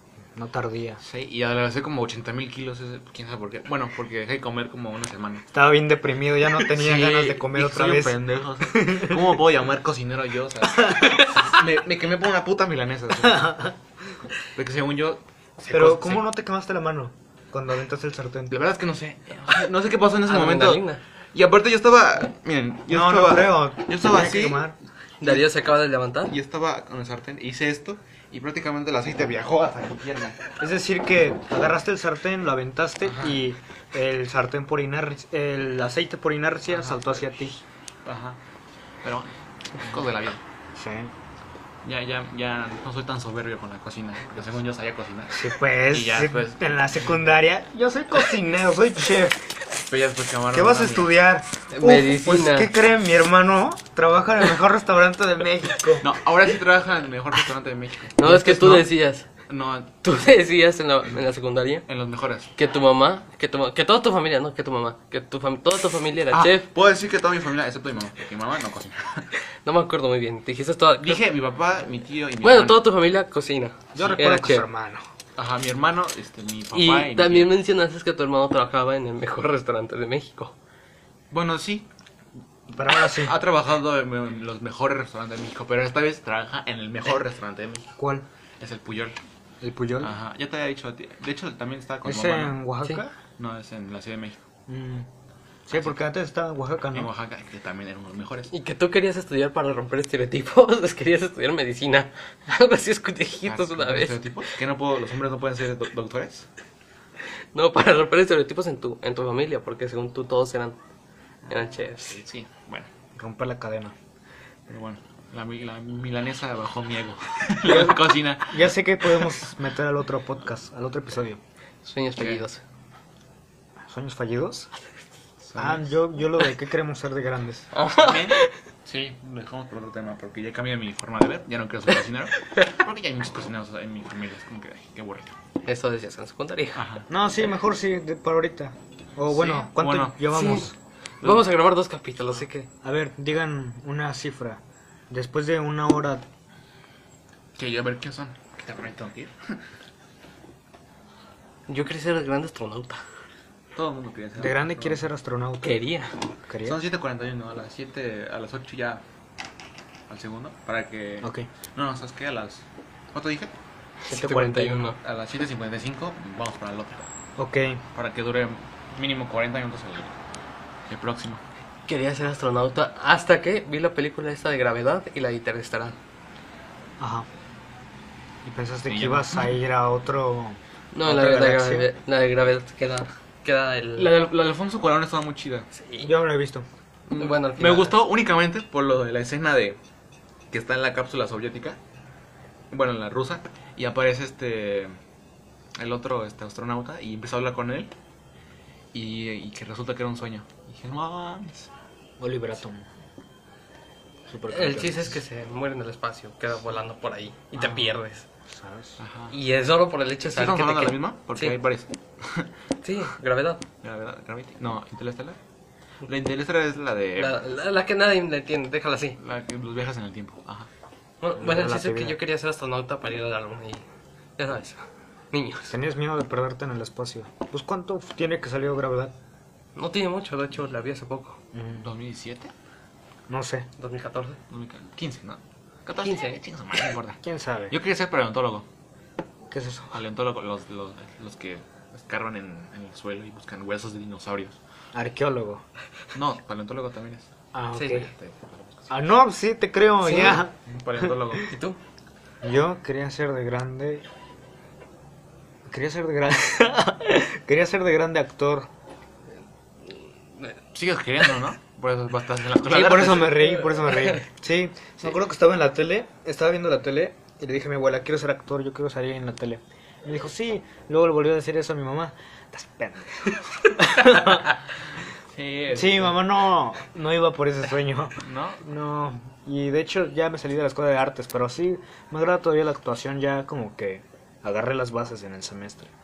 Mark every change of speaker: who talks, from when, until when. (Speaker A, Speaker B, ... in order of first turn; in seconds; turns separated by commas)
Speaker A: 0.3-1.0, Speaker B: 1.0-5.5, Speaker A: 5.5-9.3, Speaker B: 6.7-13.7, Speaker A: 10.8-11.3, Speaker A: 13.3-13.7, Speaker B: 14.4-16.2, Speaker A: 15.7-18.6, Speaker B: 18.5-25.5, Speaker C: 20.3-21.0, Speaker A: 22.9-24.8, Speaker C: 25.2-26.3, Speaker B: 26.3-30.4, Speaker A: 30.6-37.6, Speaker B: 33.1-33.4, Speaker B: 38.0-38.4, Speaker B: 39.0-40.4, Speaker A: 40.7-41.1, Speaker B: 41.8-46.8, Speaker A: 45.3-49.5, Speaker B: 49.9-51.1, Speaker A: 50.5-56.1, Speaker C: 51.7-52.7, Speaker B: 56.0-58.9, Speaker C: 58.2-59.3, Speaker B: 59.5-59.9, Speaker C: 60.0-61.9, Speaker B: 61.9-62.5, Speaker C: 62.6-66.7, Speaker B: 66.3-69.3, Speaker C: 69.7-71.2, Speaker B: 71.0-72.8, Speaker C: 72.4-74.7, Speaker A: 73.9-75.0, Speaker B: 75.3-77.5, Speaker C: 76.7-80.5, Speaker B: 81.3-81.9, Speaker A: 82.7-83.3, Speaker B: 83.0-87.9, Speaker A: 88.0-88.3, Speaker B: 88.6-89.2, Speaker A: 89.6-90.1, Speaker B: 90.0-92.6, Speaker A: 92.0-93.1, Speaker B: 93.4-94.4, Speaker A: 94.7-95.1, Speaker A: 95.7-97.1, Speaker B: 96.9-98.5, Speaker C: 98.5-104.2, Speaker B: 103.5-106.5, Speaker C: 107.5-110.8, Speaker B: 111.5-112.9, Speaker C: 111.5-112.2, Speaker A: 113.2-113.9, Speaker B: 114.7-119.3, Speaker A: 117.6-121.4, Speaker C: 121.8-122.6, Speaker B: 122.2-122.4, Speaker A: 123.9-124.7, Speaker B: 125.4-125.9, Speaker A: 125.6-127.7, Speaker C: 127.7-128.5, Speaker B: 127.9-135.3, Speaker C: 135.7-136.8, Speaker B: 136.8-137.1, Speaker A: 137.1-140.7, Speaker B: 139.3-140.4, Speaker C: 140.3-140.7, Speaker C: 141.2-142.7, Speaker A: 142.8-146.3, Speaker B: 147.6-149.6, Speaker C: 151.7-153.0, Speaker B: 153.7-155.0, Speaker A: 154.4-155.8, Speaker C: 155.6-156.2, Speaker A: 156.5-156.8, Speaker B: 156.6-159.0, Speaker B: 160.1-163.5, Speaker A: 161.2-161.5, Speaker A: 164.1-164.9, Speaker C: 164.1-165.0, Speaker B: 165.0-167.1, Speaker A: 167.4-167.8, Speaker B: 167.9-170.2, Speaker B: 170.9-171.4, Speaker C: 171.9-175.9, Speaker A: 177.0-177.3, Speaker A: 178.4-181.9, Speaker B: 178.9-179.5, Speaker C: 180.9-184.1, Speaker B: 184.0-185.7, Speaker C: 185.7-186.1, Speaker A: 186.0-186.7, Speaker B: 187.1-189.8, Speaker C: 187.2-187.9, Speaker B: 190.5-191.8, Speaker B: 192.7-194.9, Speaker B: 195.8-197.9, Speaker B: 198.9-201.7, Speaker A: 202.2-202.8, Speaker A: 204.3-205.2, Speaker C: 204.5-208.3, Speaker A: 207.6-209.0, Speaker B: 209.0-209.3, Speaker C: 209.3-211.6, Speaker B: 210.2-212.5, Speaker C: 212.8-213.6, Speaker B: 213.8-215.4, Speaker B: 216.1-217.4, Speaker C: 217.2-219.2, Speaker B: 219.2-220.7, Speaker C: 221.2-223.8, Speaker A: 221.4-222.2, Speaker C: 224.4-225.7, Speaker A: 225.7-229.1, Speaker C: 229.8-231.4, Speaker A: 231.5-231.9, Speaker B: 231.8-232.5, Speaker A: 233.3-233.7, Speaker C: 233.8-234.4, Speaker B: 234.5-238.7, Speaker C: 236.0-236.4, Speaker A: 237.2-237.7, Speaker A: 239.5-240.0, Speaker B: 239.9-244.6, Speaker A: 244.9-245.6, Speaker B: 246.1-247.3, Speaker A: 247.5-248.1, Speaker C: 247.7-248.1, Speaker B: 247.9-248.9, Speaker A: 248.9-251.1, Speaker C: 250.0-250.4, Speaker B: 250.1-251.5, Speaker C: 251.4-251.8, Speaker A: 252.4-254.1, Speaker A: 255.7-258.7, Speaker C: 259.9-260.6, Speaker B: 260.7-263.6, Speaker A: 262.6-274.5, Speaker C: 263.8-264.2, Speaker B: 275.3-276.2, Speaker A: 275.7-285.9, Speaker B: 278.2-278.6